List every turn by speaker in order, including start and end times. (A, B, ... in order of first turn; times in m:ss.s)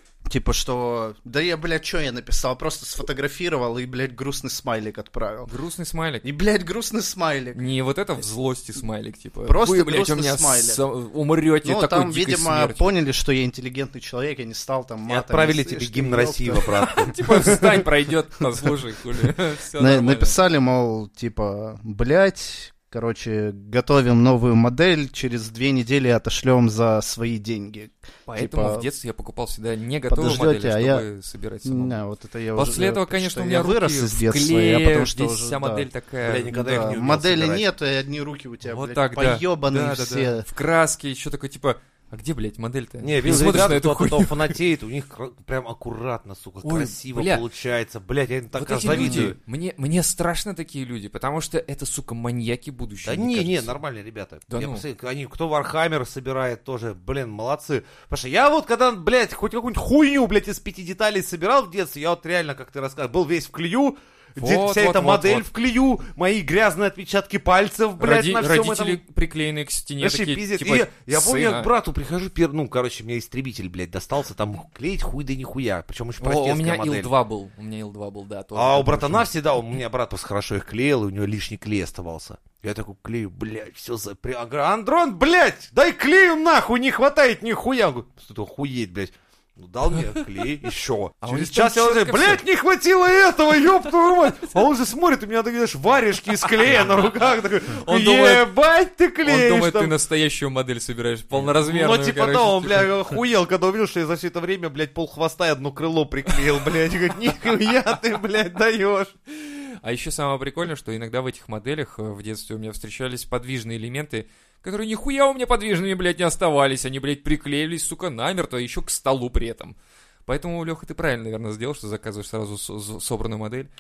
0:00.3-0:05.5 A
0:05.5-0:06.3 B
0:06.2-0:07.6 A
0:07.6-0:12.9 B
0:09.4-0:10.8 A
0:11.6-0:16.9 A
0:15.1-0:17.9 C
0:17.0-0:20.4 B
0:19.8-0:28.9 A
0:28.3-0:32.0 B
0:30.1-0:31.0 A
0:31.6-0:35.9 A
0:32.6-0:36.9 B
0:36.2-0:37.6 C
0:36.5-0:40.4 A
0:38.7-0:44.6 B
0:43.0-0:49.4 C
0:46.6-0:47.4 B
0:48.6-0:53.8 B
0:48.8-0:49.3 A
0:53.0-1:09.0 C
0:54.5-0:54.8 B
1:04.4-1:05.4 B
1:08.0-1:11.7 B
1:10.0-1:17.1 C
1:16.2-1:19.3 B
1:18.6-1:39.9 C
1:31.2-1:32.4 B
1:37.8-1:38.5 B
1:39.2-1:42.9 B
1:41.3-1:49.1 C
1:49.3-1:59.8 B
2:00.3-2:03.7 B